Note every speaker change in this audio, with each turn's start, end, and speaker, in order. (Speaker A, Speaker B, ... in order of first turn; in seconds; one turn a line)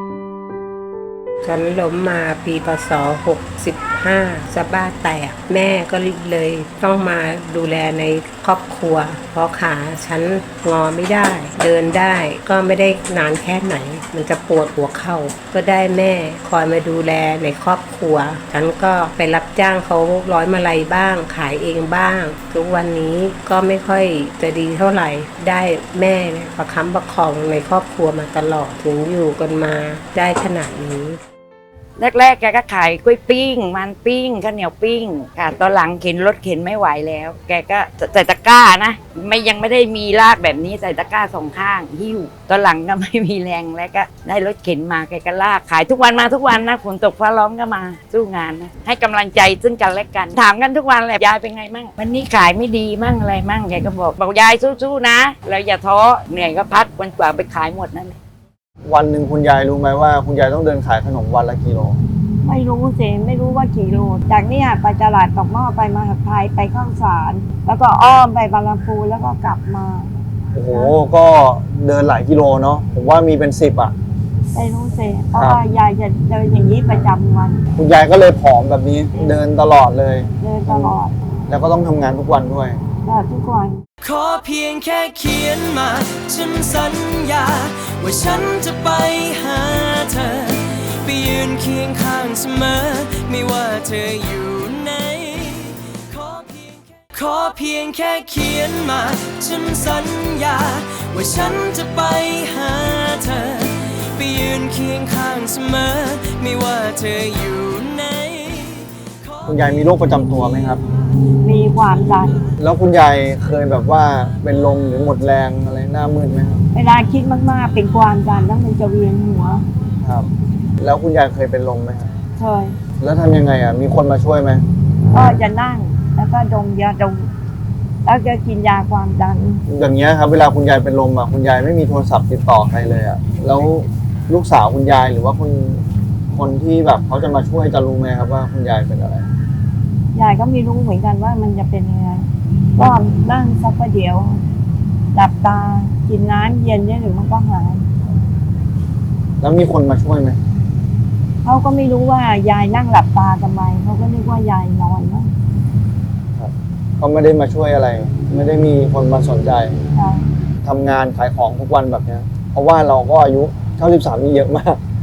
Speaker A: 1.4-31.2
Speaker B: 32.0-58.2
Speaker C: 58.9-62.0
Speaker D: 62.4-70.1
Speaker C: 70.5-73.9
Speaker D: 74.5-77.6
Speaker C: 77.8-81.0
Speaker D: 80.4-81.2
Speaker C: 81.5-82.8
Speaker D: 83.0-83.8
Speaker E: 84.0-109.5
Speaker C: 109.5-110.8
Speaker D: 111.4-112.4
Speaker C: 112.6-116.6
Speaker D: 116.7-119.6
Speaker C: 120.8-122.1
Speaker D: 122.4-122.8
Speaker C: 123.0-124.6
Speaker D: 125.1-127.3
Speaker D: 128.1-129.6
Speaker C: 129.7-139.3
Speaker D: 140.1-144.4
Speaker D: 145.1-147.9
Speaker C: 149.4-150.4
Speaker D: 151.4-155.3
Speaker C: 156.4-159.8
Speaker D: 159.9-160.3
Speaker C: 160.7-164.8